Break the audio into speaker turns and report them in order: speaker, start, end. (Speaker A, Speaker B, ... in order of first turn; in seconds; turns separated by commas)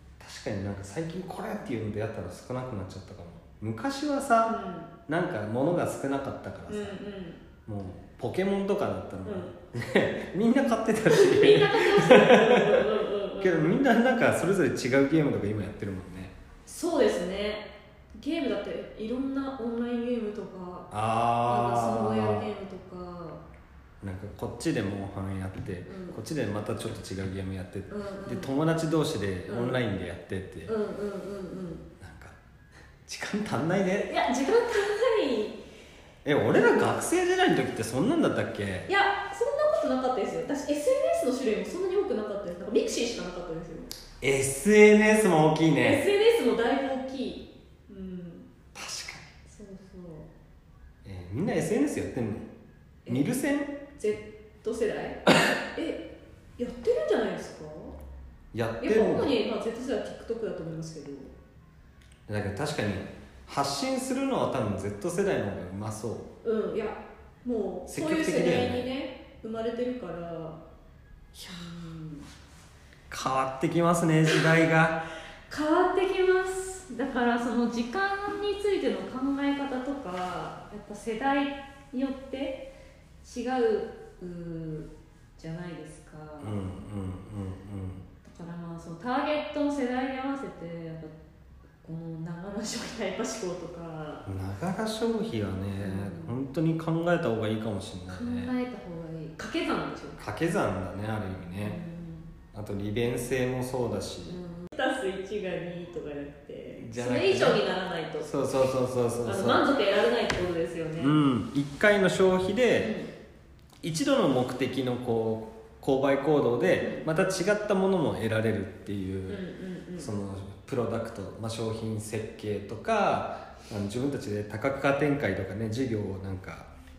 Speaker A: 0.2-4.5, Speaker B: 4.5-4.9, Speaker A: 5.1-7.0, Speaker B: 6.7-7.4, Speaker A: 7.7-16.3, Speaker B: 9.2-9.5, Speaker B: 11.1-13.8, Speaker B: 16.7-20.9, Speaker A: 20.9-22.5, Speaker B: 21.5-23.4, Speaker A: 24.0-30.7, Speaker B: 25.8-26.2, Speaker B: 27.9-28.5, Speaker B: 29.5-29.8, Speaker B: 30.7-31.9, Speaker A: 32.0-32.4, Speaker A: 33.1-34.1, Speaker B: 34.0-35.6, Speaker A: 36.2-38.9, Speaker B: 36.5-36.9, Speaker B: 38.9-43.9, Speaker A: 44.2-46.0, Speaker B: 45.8-48.5, Speaker A: 48.8-49.3, Speaker B: 49.5-50.3, Speaker A: 51.0-52.5, Speaker A: 53.1-53.7, Speaker B: 53.9-58.0, Speaker A: 58.5-59.3, Speaker B: 58.8-61.4, Speaker A: 62.3-66.3, Speaker B: 66.4-70.6, Speaker A: 67.9-68.9, Speaker B: 71.3-72.3, Speaker A: 73.1-75.0, Speaker B: 74.3-74.6, Speaker B: 75.5-82.7, Speaker B: 83.2-86.7, Speaker A: 86.4-88.0, Speaker B: 88.2-91.1, Speaker B: 91.8-94.3, Speaker A: 94.3-98.5, Speaker B: 95.8-96.4, Speaker B: 98.1-100.2, Speaker A: 100.2-101.8, Speaker B: 101.5-102.3, Speaker A: 102.5-104.4, Speaker B: 104.3-108.5, Speaker A: 106.8-107.6, Speaker A: 108.2-109.7, Speaker B: 109.2-111.2, Speaker A: 111.0-112.9, Speaker B: 112.8-113.1, Speaker A: 113.8-119.4, Speaker B: 116.8-117.1, Speaker B: 119.3-120.1, Speaker A: 120.0-126.7